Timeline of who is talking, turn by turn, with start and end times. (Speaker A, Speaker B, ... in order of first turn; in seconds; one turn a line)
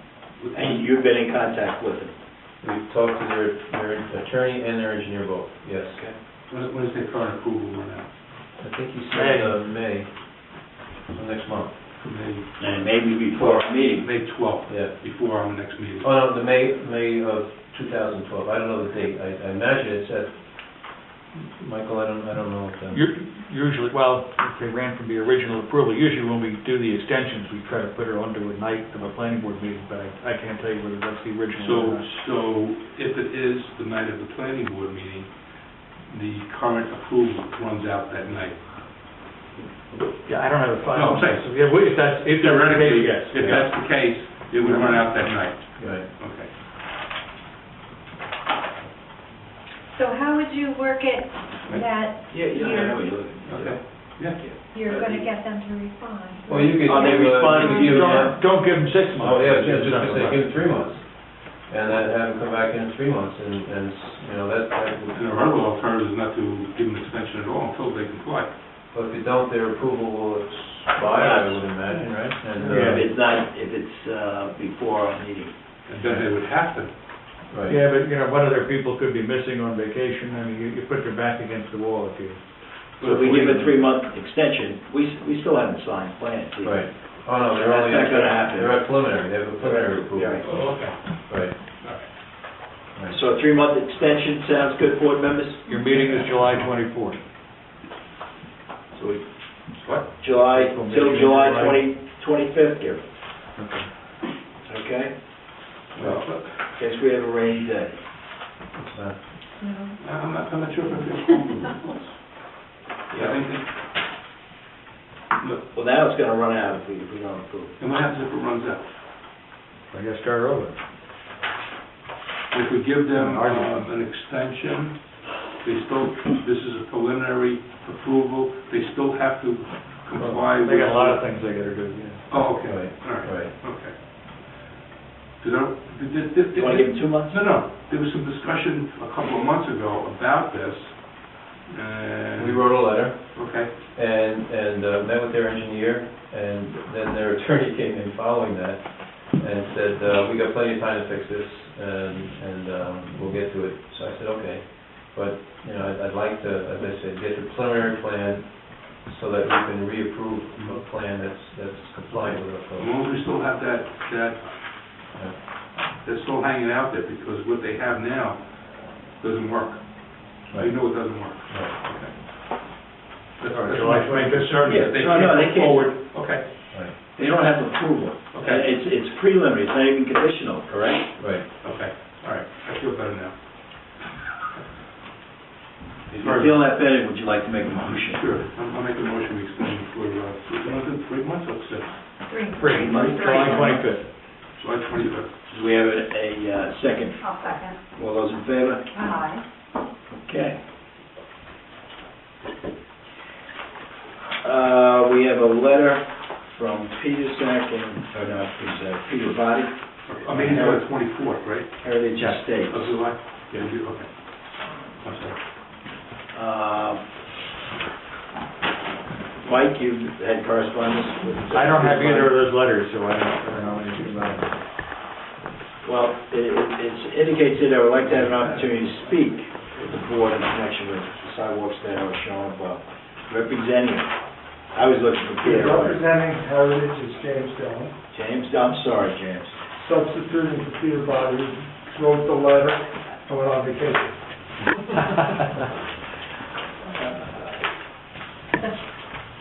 Speaker A: 0.4-0.8
Speaker B: 0.5-2.1
Speaker C: 2.6-6.0
Speaker A: 6.5-8.1
Speaker C: 8.6-10.5
Speaker D: 9.1-9.6
Speaker C: 11.1-11.7
Speaker A: 12.0-16.1
Speaker B: 12.6-14.1
Speaker C: 14.7-14.9
Speaker C: 16.0-23.1
Speaker D: 22.9-32.1
Speaker A: 31.6-38.6
Speaker D: 40.0-43.8
Speaker A: 40.9-46.5
Speaker C: 45.8-46.1
Speaker E: 49.9-53.1
Speaker B: 52.3-55.3
Speaker A: 53.4-54.4
Speaker E: 54.7-58.2
Speaker C: 56.5-65.2
Speaker B: 56.8-58.3
Speaker D: 57.2-60.5
Speaker A: 65.1-68.5
Speaker C: 68.9-73.0
Speaker B: 71.0-71.6
Speaker D: 72.6-73.1
Speaker B: 72.7-75.5
Speaker A: 75.9-76.9
Speaker C: 77.5-77.8
Speaker D: 77.7-82.8
Speaker A: 83.0-83.8
Speaker B: 83.0-86.9
Speaker C: 86.6-91.5
Speaker B: 87.5-88.9
Speaker B: 89.6-90.5
Speaker A: 90.4-91.2
Speaker A: 91.8-92.0
Speaker B: 93.1-95.7
Speaker D: 95.7-97.2
Speaker B: 99.0-99.2
Speaker A: 99.8-100.1
Speaker B: 100.2-103.0
Speaker D: 100.2-101.8
Speaker D: 103.6-103.9
Speaker B: 104.7-105.2
Speaker A: 106.0-106.7
Speaker B: 106.0-108.0
Speaker C: 108.8-109.2
Speaker E: 109.6-110.0
Speaker A: 110.0-112.2
Speaker E: 110.9-111.4
Speaker A: 113.1-113.7
Speaker A: 115.4-115.6
Speaker B: 115.7-117.8
Speaker A: 117.8-118.9
Speaker D: 119.9-120.8
Speaker A: 122.5-131.3
Speaker D: 123.1-123.8
Speaker D: 130.2-132.3
Speaker A: 132.3-134.2
Speaker C: 132.5-133.5
Speaker A: 135.4-143.7
Speaker B: 136.5-137.4
Speaker C: 142.4-162.9
Speaker A: 162.1-164.6
Speaker A: 166.0-172.2
Speaker C: 170.5-170.8
Speaker A: 173.4-176.5
Speaker D: 173.5-175.9
Speaker B: 174.7-175.9
Speaker B: 177.1-181.1
Speaker A: 178.3-178.7
Speaker C: 181.2-181.4
Speaker A: 181.6-184.0
Speaker A: 186.1-186.6
Speaker B: 186.2-188.2
Speaker A: 188.1-192.1
Speaker E: 192.3-193.8
Speaker D: 192.6-194.1
Speaker B: 192.7-193.9
Speaker A: 194.5-195.3
Speaker B: 195.5-197.4
Speaker E: 197.2-197.8
Speaker B: 197.9-198.9
Speaker E: 198.9-199.4
Speaker B: 200.2-200.6
Speaker B: 204.4-211.1
Speaker A: 210.1-212.0
Speaker B: 211.8-213.0
Speaker D: 212.2-212.4
Speaker A: 212.6-215.4
Speaker B: 216.3-217.0
Speaker B: 219.4-222.3
Speaker D: 221.5-224.6
Speaker B: 225.8-234.2
Speaker A: 228.2-228.7
Speaker B: 234.7-236.0
Speaker F: 235.4-237.9
Speaker B: 238.1-239.6
Speaker F: 239.8-244.1